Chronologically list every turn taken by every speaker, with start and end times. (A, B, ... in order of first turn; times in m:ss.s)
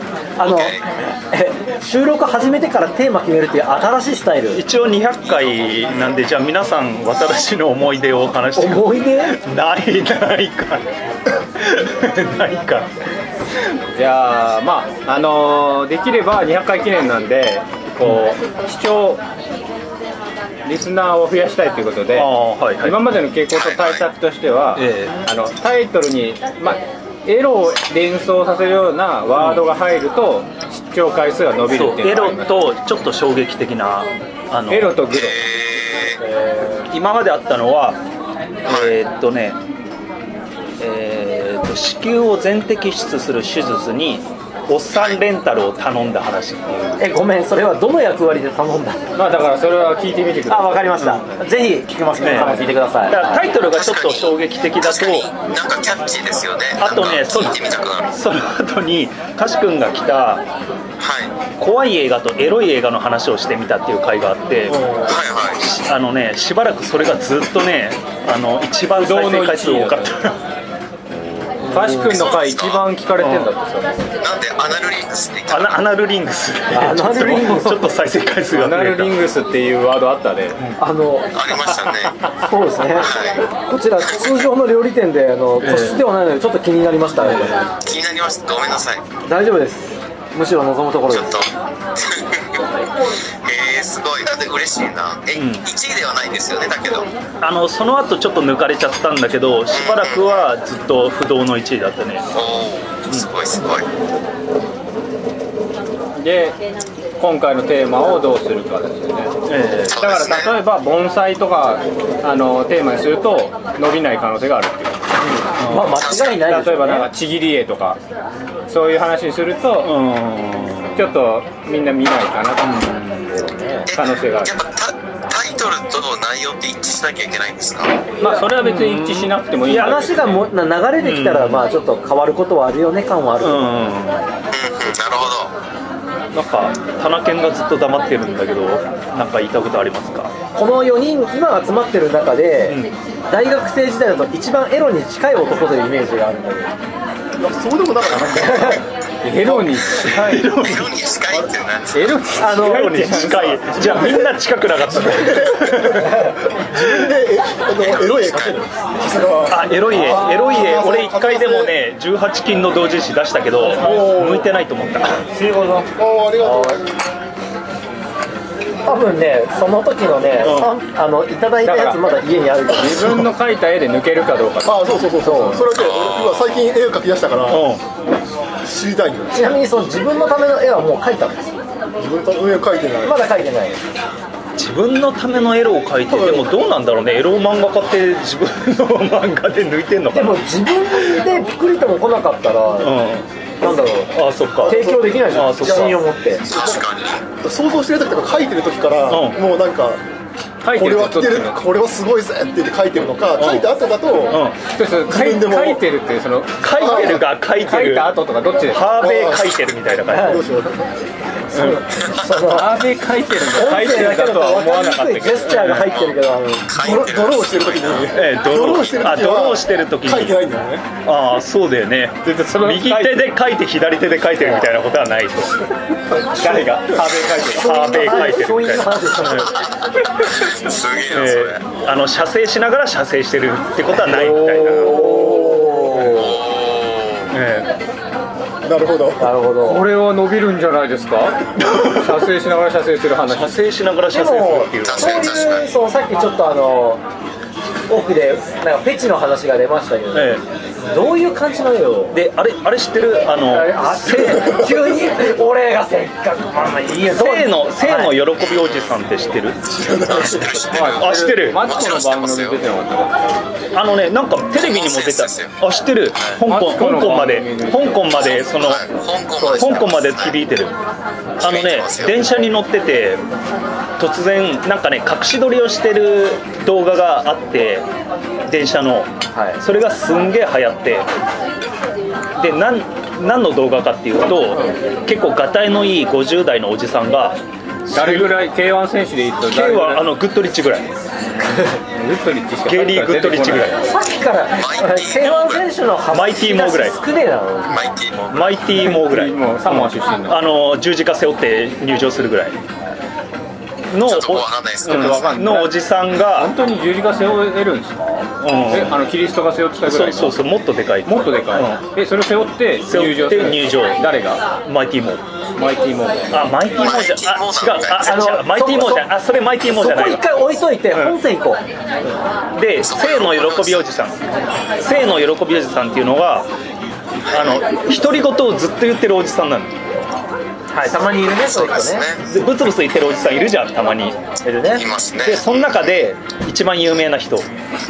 0:00.4-0:04.6 A
0:00.4-0:00.8 B
0:04.5-0:10.8 C
0:08.6-0:09.4 A
0:11.6-0:12.9 C
0:13.9-0:19.2 D
0:20.6-0:32.6 D
0:22.1-0:23.0 C
0:23.5-0:24.1 B
0:24.8-0:25.1 C
0:29.3-0:29.6 C
0:31.7-0:35.0 C
0:34.7-0:35.5 D
0:35.1-0:36.2 B
0:36.2-0:36.9 D
0:36.9-0:38.0 C
0:38.6-0:39.6 C
0:38.7-0:39.0 B
0:40.8-0:47.0 C
0:44.9-0:45.2 B
0:47.0-0:49.0 A
0:49.1-0:51.1 D
0:50.5-0:53.4 A
0:51.0-0:51.2 C
0:52.2-0:55.3 C
0:52.3-0:52.7 D
0:53.6-0:58.1 B
0:56.8-1:00.4 C
1:01.0-1:01.3 B
1:01.6-1:10.4 C
1:05.0-1:05.6 B
1:09.0-1:10.1 D
1:11.7-1:12.0 A
1:11.7-1:13.9 D
1:12.0-1:12.9 B
1:13.2-1:13.5 C
1:14.2-1:15.8 B
1:15.5-1:19.1 C
1:16.7-1:17.9 A
1:18.5-1:20.6 D
1:20.8-1:21.3 A
1:21.3-1:22.2 B
1:22.4-1:27.7 A
1:23.0-1:23.4 B
1:24.0-1:24.5 B
1:25.6-1:26.0 C
1:27.2-1:27.6 C
1:27.8-1:29.0 B
1:29.2-1:31.4 A
1:31.1-1:32.6 B
1:33.4-1:37.1 B
1:35.3-1:35.6 C
1:37.4-1:42.3 C
1:39.7-1:40.4 B
1:42.3-1:43.8 B
1:46.2-1:46.6 D
1:47.2-1:49.3 D
1:49.5-1:50.1 C
1:49.9-1:50.6 B
1:50.0-1:55.3 D
1:55.2-1:57.1 A
1:55.6-1:56.0 C
1:56.0-1:56.4 B
1:56.4-1:58.0 D
1:58.7-1:59.9 D
1:59.8-2:01.0 C
2:00.9-2:03.3 D
2:02.6-2:03.3 C
2:03.3-2:03.9 A
2:03.9-2:08.0 B
2:03.9-2:04.5 D
2:08.2-2:10.5 D
2:08.2-2:10.1 C
2:09.7-2:13.8 A
2:11.0-2:11.6 C
2:13.4-2:14.2 C
2:14.5-2:15.5 B
2:16.3-2:20.3 C
2:20.5-2:26.7 A
2:22.6-2:22.9 C
2:27.4-2:29.8 E
2:28.2-2:28.8 A
2:29.2-2:30.4 D
2:30.0-2:31.0 C
2:30.5-2:32.2 B
2:31.9-2:33.8 D
2:32.4-2:33.0 A
2:32.5-2:36.3 C
2:33.7-2:41.8 E
2:37.8-2:38.6 B
2:39.5-2:45.2 C
2:43.7-2:44.5 E
2:45.4-2:45.8 A
2:45.4-2:45.8 D
2:46.0-2:46.8 E
2:46.4-2:46.8 A
2:48.8-2:53.2 A
2:50.4-2:50.7 C
2:51.6-2:52.0 D
2:52.7-2:54.9 D
2:54.6-2:57.7 E
2:55.2-2:55.7 A
2:55.7-2:56.5 B
2:57.5-2:57.8 C
2:58.6-2:59.6 E
2:59.3-3:01.6 A
3:02.0-3:03.2 E
3:03.0-3:03.8 A
3:04.6-3:10.4 C
3:06.1-3:06.4 E
3:10.1-3:13.0 A
3:12.8-3:13.3 C
3:13.6-3:14.1 A
3:14.1-3:16.0 C
3:14.6-3:20.0 E
3:14.6-3:16.4 A
3:16.4-3:17.2 B
3:19.1-3:19.4 C
3:20.6-3:21.6 D
3:20.7-3:24.4 E
3:23.4-3:23.7 C
3:24.3-3:24.6 C
3:24.7-3:28.9 D
3:25.1-3:25.8 E
3:26.6-3:28.1 C
3:26.7-3:27.2 E
3:28.7-3:30.4 C
3:28.9-3:29.4 E
3:30.1-3:30.4 A
3:30.1-3:30.9 E
3:31.5-3:32.8 A
3:32.0-3:32.2 B
3:32.4-3:35.6 D
3:33.5-3:36.7 A
3:35.4-3:35.9 C
3:35.7-3:38.1 B
3:36.8-3:40.8 E
3:38.1-3:40.4 C
3:41.0-3:45.6 C
3:42.2-3:43.3 D
3:46.2-3:48.3 D
3:47.5-3:49.6 A
3:47.6-3:49.5 C
3:50.1-3:51.6 B
3:51.1-3:55.0 C
3:54.1-3:55.1 D
3:54.8-3:56.4 A
3:54.9-3:56.0 E
3:56.0-3:57.3 B
3:57.3-3:57.7 C
3:58.6-3:59.4 E
3:59.2-3:59.8 A
3:59.6-4:03.6 D
4:01.6-4:02.1 C
4:03.3-4:05.3 C
4:04.1-4:07.0 A
4:04.8-4:05.7 B
4:07.9-4:12.2 A
4:10.1-4:10.4 C
4:12.1-4:14.7 C
4:13.5-4:18.2 A
4:14.2-4:14.8 E
4:17.1-4:19.6 C
4:18.4-4:18.9 B
4:19.7-4:20.8 E
4:20.0-4:22.6 B
4:20.7-4:23.2 D
4:21.0-4:21.6 C
4:23.7-4:28.8 C
4:24.6-4:25.6 B
4:26.4-4:28.2 D
4:28.4-4:30.4 B
4:29.4-4:29.9 A
4:29.5-4:30.7 C
4:31.4-4:32.4 B
4:31.4-4:33.2 C
4:34.0-4:37.8 C
4:38.4-4:41.1 C
4:39.3-4:39.6 A
4:42.4-4:48.3 C
4:47.9-4:50.0 D
4:49.5-4:50.9 C
4:51.5-4:53.8 D
4:52.6-4:53.8 C
4:53.8-4:57.8 A
4:54.6-4:55.7 B
4:56.1-4:57.0 C
4:57.7-4:58.5 B
4:58.3-5:02.6 C
4:58.6-5:00.4 D
5:03.9-5:06.5 C
5:04.0-5:05.4 B
5:04.8-5:10.4 D
5:08.4-5:08.9 C
5:09.8-5:11.8 C
5:11.0-5:14.4 D
5:12.8-5:14.0 C
5:14.6-5:15.2 C
5:15.6-5:16.5 D
5:16.3-5:20.3 C
5:16.7-5:18.3 B
5:18.0-5:19.1 A
5:19.7-5:21.6 A
5:20.9-5:21.2 C
5:22.5-5:24.2 C
5:22.8-5:23.8 B
5:24.8-5:26.5 C
5:27.3-5:29.8 C
5:30.7-5:32.0 A
5:31.4-5:32.2 B
5:32.2-5:34.2 C
5:34.4-5:34.8 A
5:34.6-5:35.9 B
5:35.2-5:37.5 C